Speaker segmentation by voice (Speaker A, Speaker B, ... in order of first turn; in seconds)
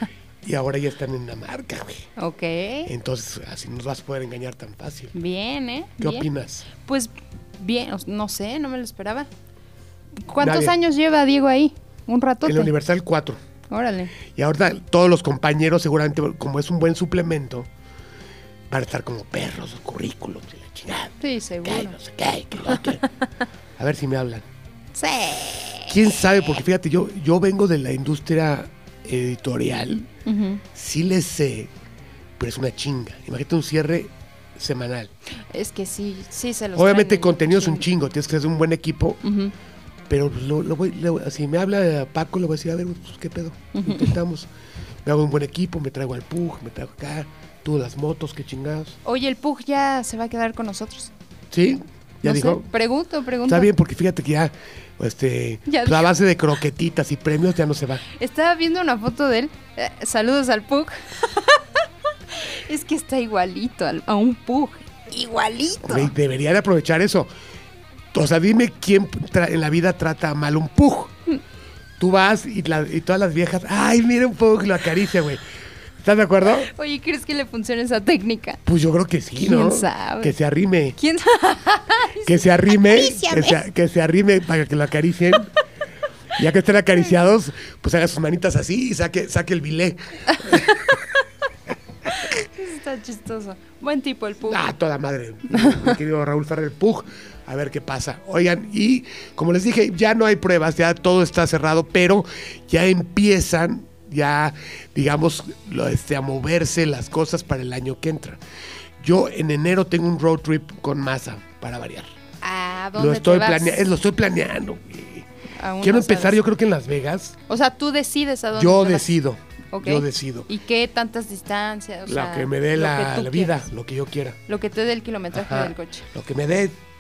Speaker A: 0.4-2.1, 2.9-5.1, 6.0-6.7, 10.4-10.8, 12.4-13.4, 14.3-17.7, 18.7-23.1, 23.8-24.4, 25.9-30.1, 30.7-31.7, 32.4-35.1, 36.8-39.2, 40.1-44.5, 45.0-49.0, 51.5-52.7, 53.5-58.0, 65.9-67.3, 68.1-71.1, 72.0-75.4, 76.0-76.7, 78.7-81.0, 82.3-85.5, 86.4-90.9, 94.5-108.4, 109.0-112.1, 113.0-115.3, 115.8-117.4, 118.5-120.5, 122.1-124.4, 125.3-126.8
Speaker B: 2.2-2.9, 5.1-9.3, 10.2-12.7, 13.7-14.2, 21.2-22.0, 24.9-25.9, 30.3-30.6, 35.5-37.9, 39.2-39.5, 43.7-44.1, 49.0-51.1, 52.2-53.7, 55.7-56.1, 58.1-61.6, 62.3-66.1, 76.5-78.6, 79.4-80.3, 81.0-83.6, 90.5-90.9, 92.1-94.6, 95.5-95.9, 112.4-113.8, 115.6-116.4, 117.5-119.1, 119.7-123.6, 124.5-126.1